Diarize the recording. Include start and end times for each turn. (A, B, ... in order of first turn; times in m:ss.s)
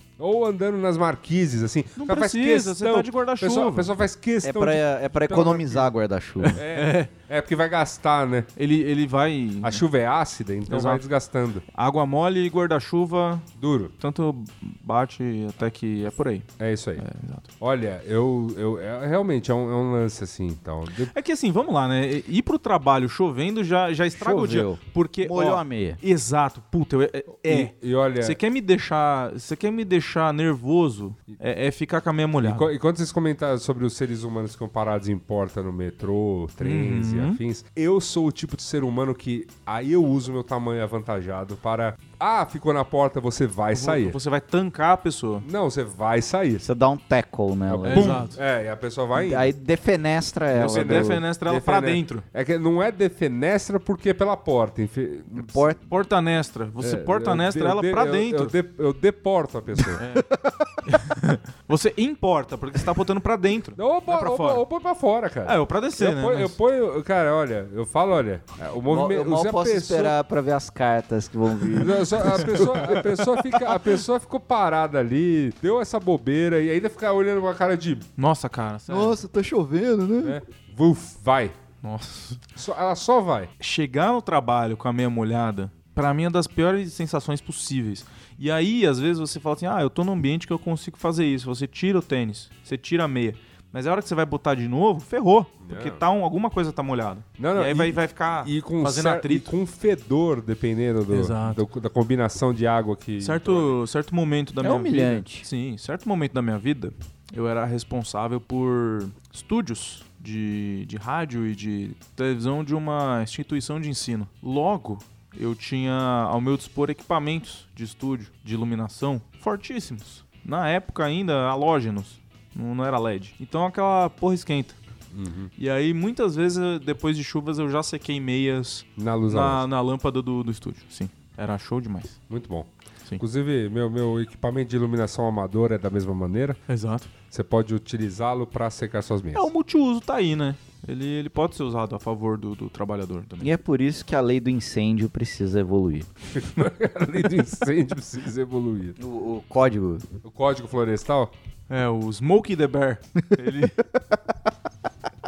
0:00.2-0:05.9 A
0:02.0-0:03.9 B
0:04.4-0:06.6 C
0:06.4-0:07.1 B
0:06.5-0:08.5 A
0:08.6-0:09.8 B
0:09.6-0:11.6 A
0:10.7-0:11.0 B
0:11.7-0:17.5 B
0:13.6-0:13.9 A
0:16.6-0:17.1 A
0:17.6-0:21.1 A
0:21.1-0:32.7 B
0:24.2-0:26.0 C
0:27.4-0:28.4 A
0:32.4-0:44.2 A
0:36.6-0:37.4 B
0:43.7-0:45.5 B
0:45.4-0:46.6 A
0:46.6-0:48.3 C
0:47.7-0:49.5 A
0:47.9-0:48.4 B
0:49.2-0:51.2 C
0:50.5-0:55.7 A
0:50.6-0:52.2 B
0:55.4-0:55.8 C
0:55.9-0:58.6 B
0:56.8-1:00.0 A
1:00.0-1:00.3 B
1:00.2-1:00.5 C
1:00.9-1:04.6 B
1:03.8-1:10.1 A
1:05.4-1:06.6 B
1:08.9-1:13.0 C
1:11.8-1:18.1 A
1:12.4-1:13.1 B
1:18.2-1:19.2 B
1:18.9-1:20.4 C
1:20.2-1:21.5 A
1:21.8-1:22.4 B
1:22.6-1:23.5 A
1:23.6-1:39.5 B
1:35.6-1:36.0 A
1:37.4-1:43.8 A
1:41.1-1:41.6 B
1:43.2-2:04.8 B
1:44.6-1:45.5 C
2:05.1-2:05.5 A
2:05.6-2:12.2 B
2:09.0-2:09.6 A
2:12.3-2:16.6 A
2:16.7-2:17.1 B
2:17.3-2:19.5 A
2:19.3-2:23.5 B
2:23.4-2:26.1 C
2:26.4-2:29.0 A
2:29.0-2:30.1 C
2:30.2-2:31.3 A
2:31.7-2:33.8 B